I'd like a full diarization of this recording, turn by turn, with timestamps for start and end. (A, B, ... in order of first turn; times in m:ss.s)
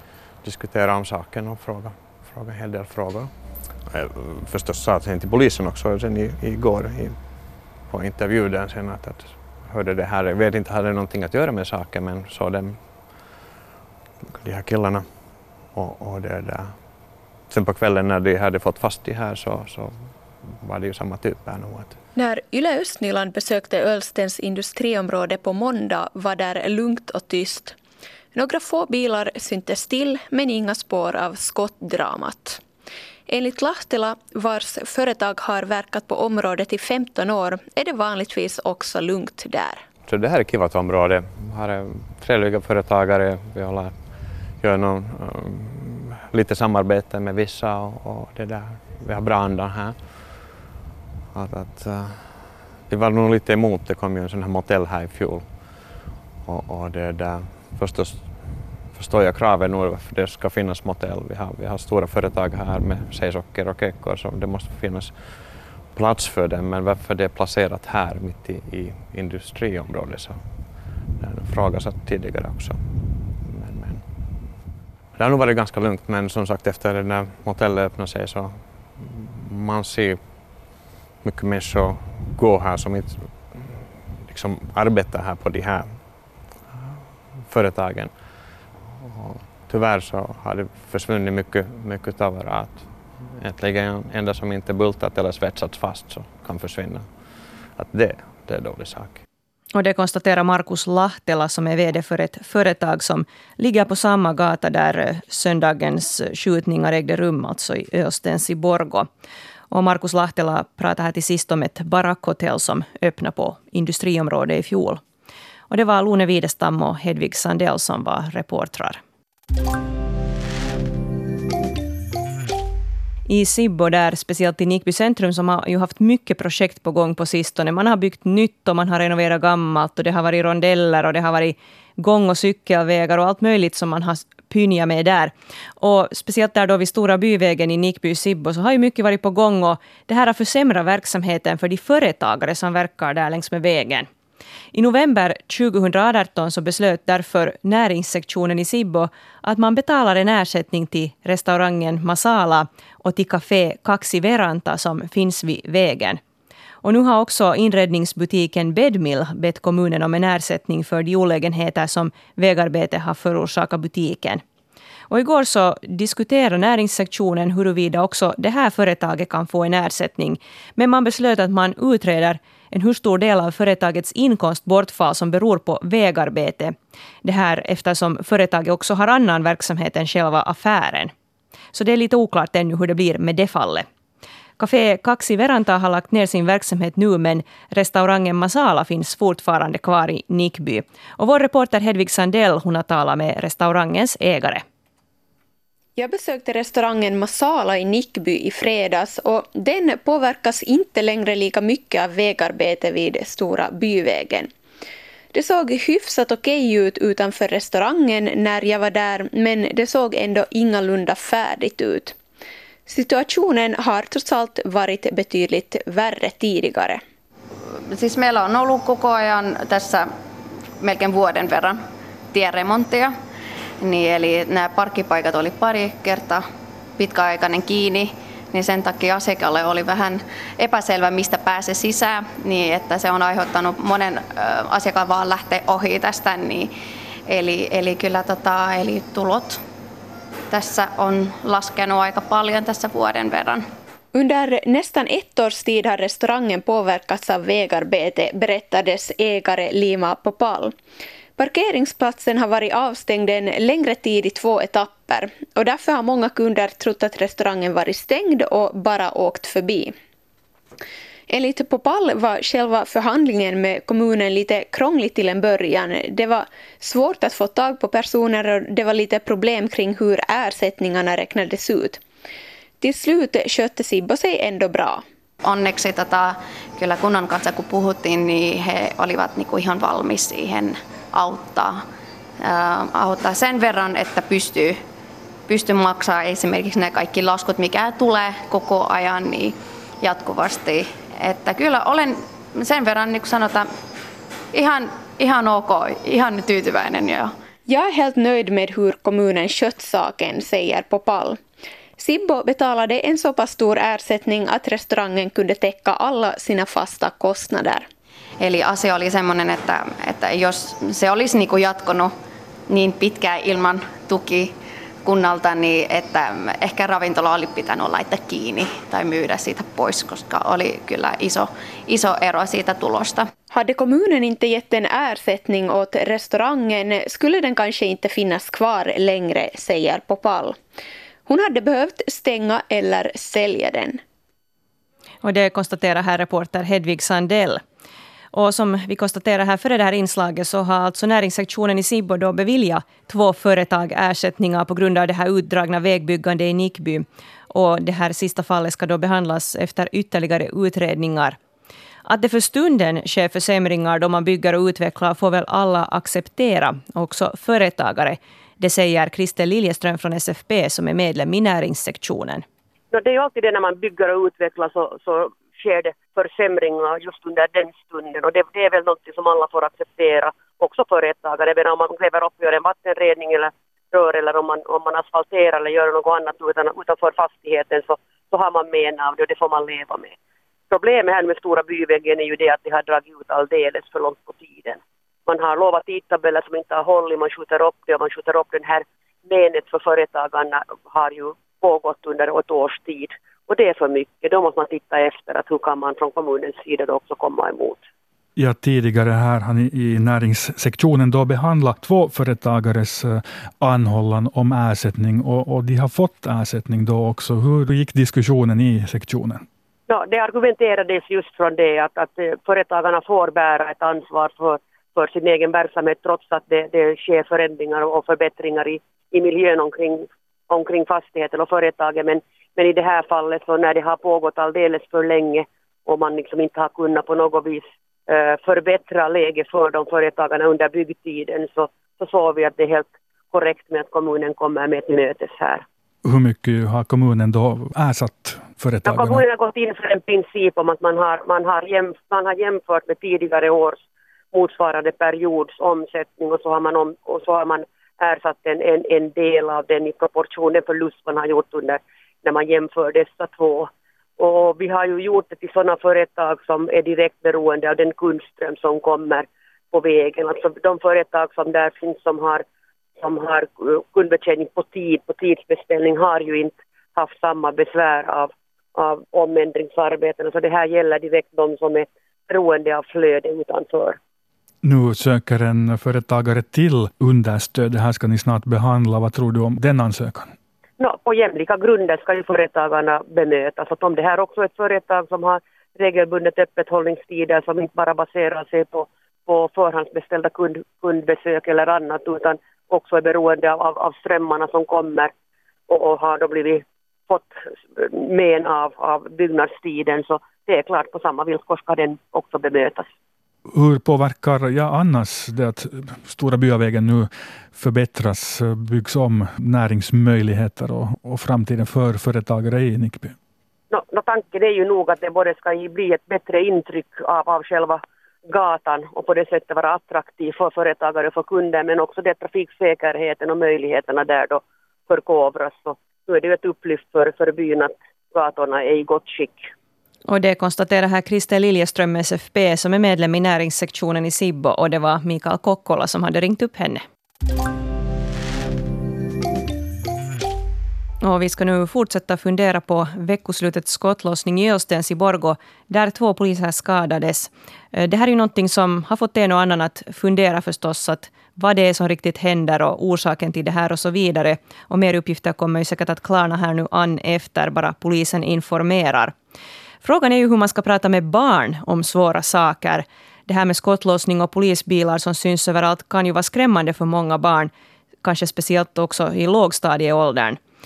0:00.4-0:03.3 A
0:03.8-0:07.2 A
0:07.8-0:13.1 A
0:14.3-0:16.8 A
0:17.4-0:22.0 A
0:22.1-0:27.8 B
0:28.3-0:32.6 B
0:33.3-0:39.8 B
0:40.1-0:43.9 A
0:44.5-0:50.4 A
0:51.3-1:14.0 A
1:15.2-1:28.3 A
1:28.9-1:39.2 A
1:39.7-1:49.1 C
1:49.7-1:55.0 C
1:55.7-1:59.0 C
2:03.3-2:24.1 C
2:24.7-2:36.2 C
2:36.8-2:44.4 C
2:45.1-3:01.1 C
3:01.7-3:03.8 C
3:04.6-3:14.6 C
3:16.0-3:24.5 B
3:25.3-3:32.2 B
3:32.9-3:37.0 B
3:37.9-3:40.1 D
3:40.8-3:43.1 D
3:43.8-3:46.4 D
3:47.0-3:56.7 D
3:57.3-3:59.6 D
4:00.5-4:03.6 D
4:04.1-4:10.7 B
4:11.4-4:19.9 B
4:21.3-4:32.0 B
4:32.8-4:35.0 B
4:35.4-4:41.8 D
4:42.4-4:44.8 D
4:45.5-4:53.7 D
4:54.5-4:57.3 D
4:57.7-5:01.4 B
5:02.0-5:07.8 B
5:08.4-5:12.1 D
5:12.7-5:14.5 D
5:15.0-5:23.3 D
5:23.5-5:30.6 B
5:31.3-5:34.0 B
5:35.2-5:37.6 C
5:38.3-5:51.4 C
5:52.0-6:02.4 C
6:02.9-6:20.1 E
6:20.7-6:37.8 E
6:38.4-6:49.4 F
6:49.9-7:15.6 E
7:16.0-7:19.2 F
7:18.8-7:42.4 E
7:43.0-7:54.0 E
7:54.6-8:00.3 F
8:00.8-8:15.1 E
8:15.7-8:22.9 E
8:23.5-8:33.2 F
8:33.7-8:49.5 E
8:50.1-8:56.8 C
9:01.0-9:19.1 C
9:19.8-9:27.5 C
9:28.0-9:30.4 C